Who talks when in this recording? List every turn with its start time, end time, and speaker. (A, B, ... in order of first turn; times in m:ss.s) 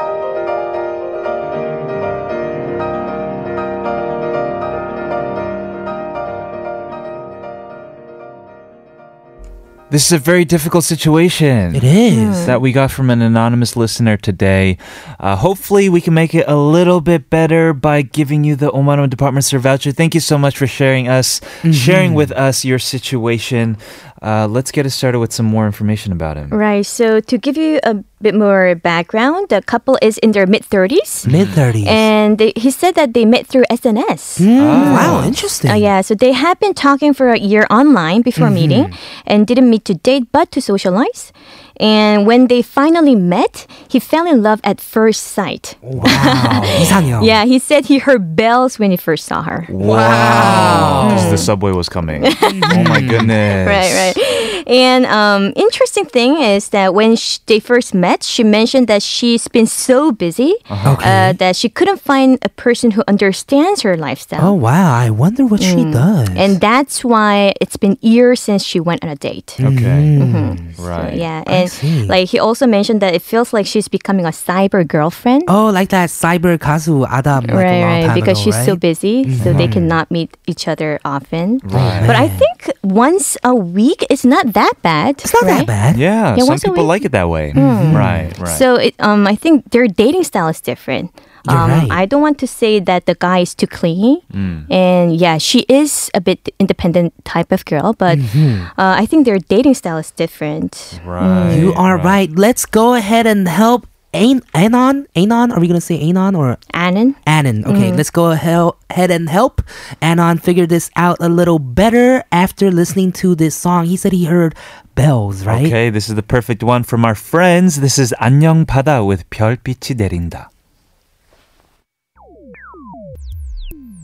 0:09.9-0:11.9 A
0:11.7-0:12.5 B
0:12.1-0:12.5 C
0:12.4-0:26.5 A
0:21.6-0:22.3 B
0:26.5-0:31.3 C
0:31.2-0:31.6 A
0:31.2-0:32.1 B
0:31.8-0:49.7 C
0:34.4-0:35.9 B
0:34.6-0:35.4 A
0:38.4-0:38.9 B
0:45.8-0:47.4 B
0:46.2-0:47.1 A
0:49.7-0:54.2 A
0:49.8-0:51.4 B
0:50.8-0:51.5 C
0:52.2-0:52.7 C
0:52.4-0:53.3 B
0:53.4-1:04.6 C
1:00.7-1:01.0 A
1:00.8-1:01.4 B
1:04.4-1:06.5 B
1:05.6-1:09.6 C
1:09.6-1:10.7 B
1:09.6-1:10.1 A
1:10.2-1:15.5 C
1:10.8-1:11.2 A
1:11.4-1:12.2 B
1:15.5-1:20.0 B
1:17.4-1:25.7 C
1:19.4-1:19.7 A
1:21.6-1:22.1 A
1:21.7-1:22.5 B
1:25.2-1:26.0 B
1:25.9-1:28.6 A
1:26.3-1:27.0 C
1:27.5-1:28.3 B
1:27.5-1:41.7 C
1:31.4-1:32.0 B
1:34.3-1:34.7 A
1:38.1-1:38.7 B
1:40.9-1:42.2 A
1:41.5-1:46.6 B
1:46.7-1:48.0 C
1:47.2-1:55.8 B
1:55.5-2:00.5 A